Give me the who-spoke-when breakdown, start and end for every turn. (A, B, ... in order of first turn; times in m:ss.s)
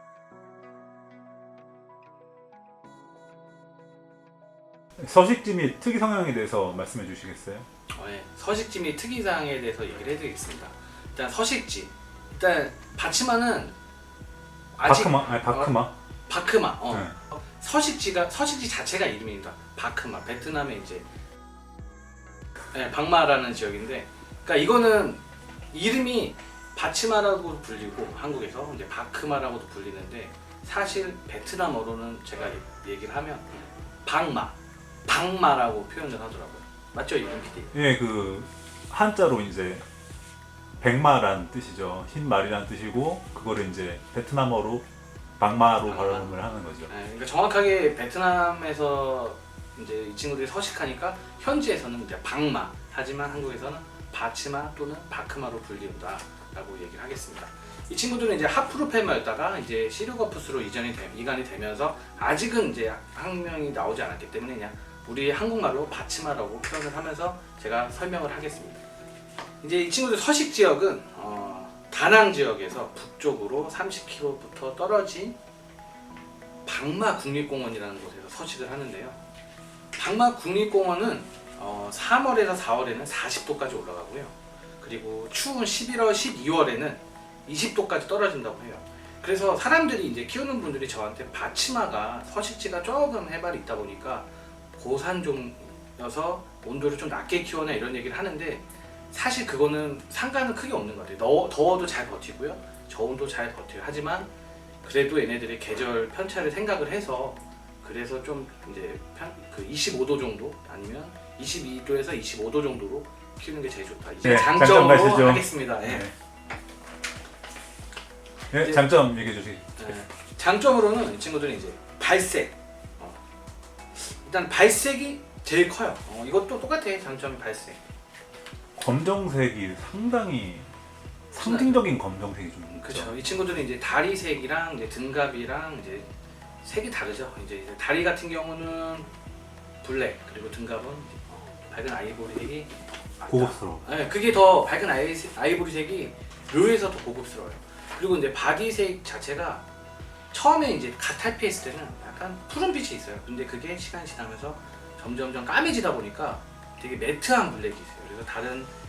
0:05.0-0:07.7 A
0:07.9-0:13.7 B
0:14.8-0:15.8 B
0:14.8-0:15.9 A
0:16.3-0:21.0 B
0:22.7-0:33.5 B
0:34.0-0:37.8 B
0:37.7-0:39.8 A
0:40.8-0:44.9 A
0:45.4-0:46.9 A
0:45.8-0:46.3 B
0:46.9-1:08.8 B
1:09.6-1:15.4 B
1:16.7-1:19.2 B
1:20.0-1:44.3 B
1:44.8-1:56.1 B
1:54.2-1:56.1 A
1:58.5-1:59.8 A
1:58.6-1:58.9 B
1:59.8-2:03.2 B
2:03.9-2:07.8 B
2:08.8-2:10.7 A
2:11.3-2:13.1 A
2:11.4-2:11.9 B
2:12.7-2:16.1 B
2:16.6-2:19.1 B
2:19.8-2:29.6 B
2:23.3-2:23.8 A
2:30.3-2:38.7 B